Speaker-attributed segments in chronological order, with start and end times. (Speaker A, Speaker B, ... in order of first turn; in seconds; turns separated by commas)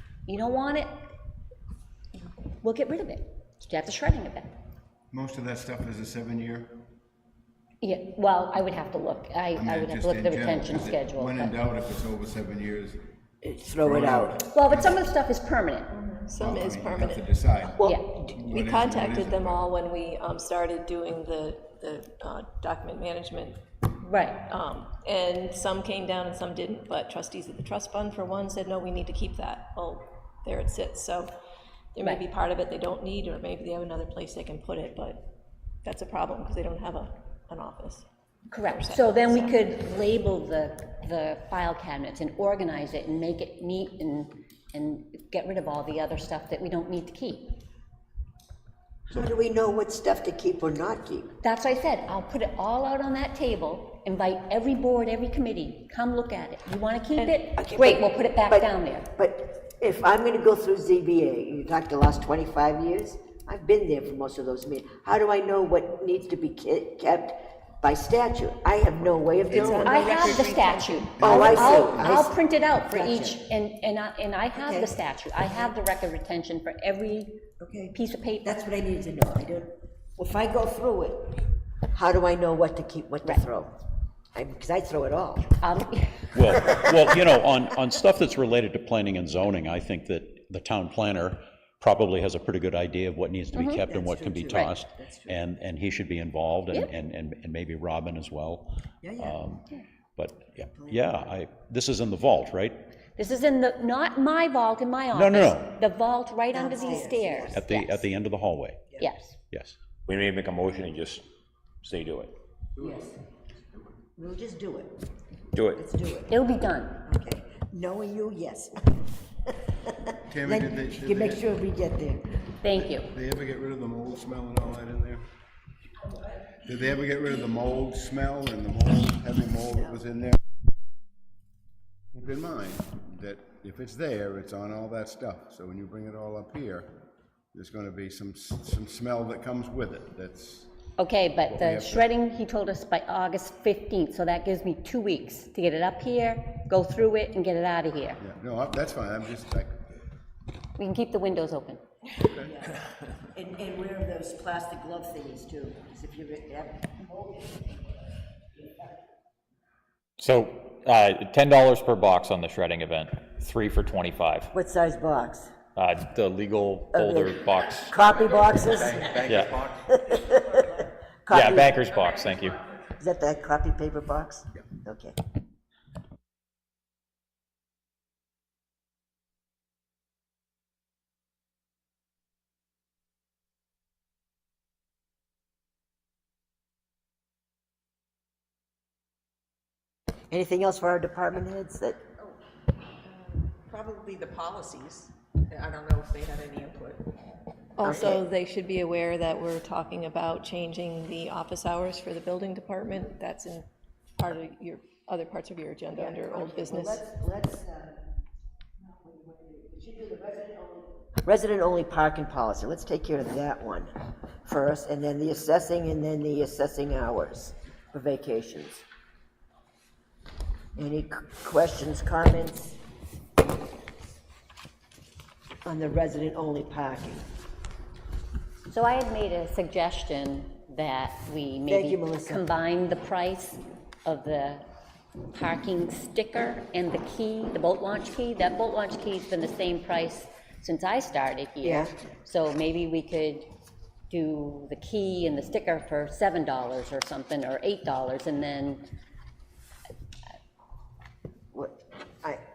Speaker A: 0.3-1.0, Speaker A: 2.4-4.5, Speaker B: 5.1-6.8, Speaker A: 7.8-11.5, Speaker B: 9.6-13.1, Speaker C: 13.4-14.4, Speaker B: 13.8-15.1, Speaker A: 14.5-15.9, Speaker D: 15.9-17.2, Speaker B: 16.4-19.7, Speaker C: 17.8-18.1, Speaker A: 17.8-18.2, Speaker D: 18.5-23.6, Speaker A: 24.0-24.4, Speaker D: 24.5-31.3, Speaker D: 31.9-35.3, Speaker D: 35.8-38.0, Speaker A: 38.5-47.6, Speaker D: 38.6-39.5, Speaker C: 49.1-51.3, Speaker A: 51.4-59.1, Speaker C: 57.5-70.2, Speaker E: 69.5-71.5, Speaker A: 69.8-77.4, Speaker B: 71.2-72.1, Speaker C: 71.2-73.4, Speaker C: 74.6-74.9, Speaker C: 77.6-83.7, Speaker A: 77.9-78.6, Speaker C: 84.3-85.5, Speaker A: 85.6-86.5, Speaker F: 86.3-99.6, Speaker C: 86.6-86.9, Speaker A: 93.5-93.8, Speaker C: 93.9-95.4, Speaker C: 99.0-99.4, Speaker F: 100.2-102.8, Speaker C: 100.7-101.3, Speaker A: 103.2-108.1, Speaker F: 105.1-105.7, Speaker C: 106.5-107.6, Speaker F: 107.5-108.8, Speaker A: 109.0-109.3, Speaker F: 109.5-109.8, Speaker G: 110.1-111.2, Speaker G: 111.8-112.3, Speaker C: 112.8-113.1, Speaker C: 114.1-115.0, Speaker C: 115.7-116.4, Speaker A: 116.3-117.0, Speaker C: 117.0-122.2, Speaker B: 120.2-121.4, Speaker A: 122.6-123.1, Speaker B: 122.9-125.2, Speaker B: 126.6-130.4, Speaker B: 132.1-136.9, Speaker B: 137.5-140.7, Speaker A: 141.0-148.2, Speaker B: 141.5-142.1, Speaker B: 148.2-149.8, Speaker A: 150.8-151.8, Speaker C: 152.4-157.7, Speaker H: 160.2-164.5, Speaker C: 164.5-165.5, Speaker H: 165.7-167.9, Speaker C: 166.9-171.9, Speaker G: 168.8-169.7, Speaker H: 169.2-169.6, Speaker H: 171.3-172.6, Speaker C: 172.9-175.2, Speaker C: 190.3-192.0, Speaker E: 193.0-197.1, Speaker D: 197.8-203.7, Speaker C: 197.8-198.2, Speaker D: 204.2-207.0, Speaker C: 205.9-208.0, Speaker C: 208.8-213.9, Speaker C: 214.4-218.8, Speaker C: 220.8-222.8, Speaker C: 225.6-227.2, Speaker A: 228.7-234.6, Speaker C: 231.7-232.4, Speaker A: 235.3-243.5, Speaker C: 241.6-241.9, Speaker A: 244.1-248.9, Speaker C: 251.5-252.4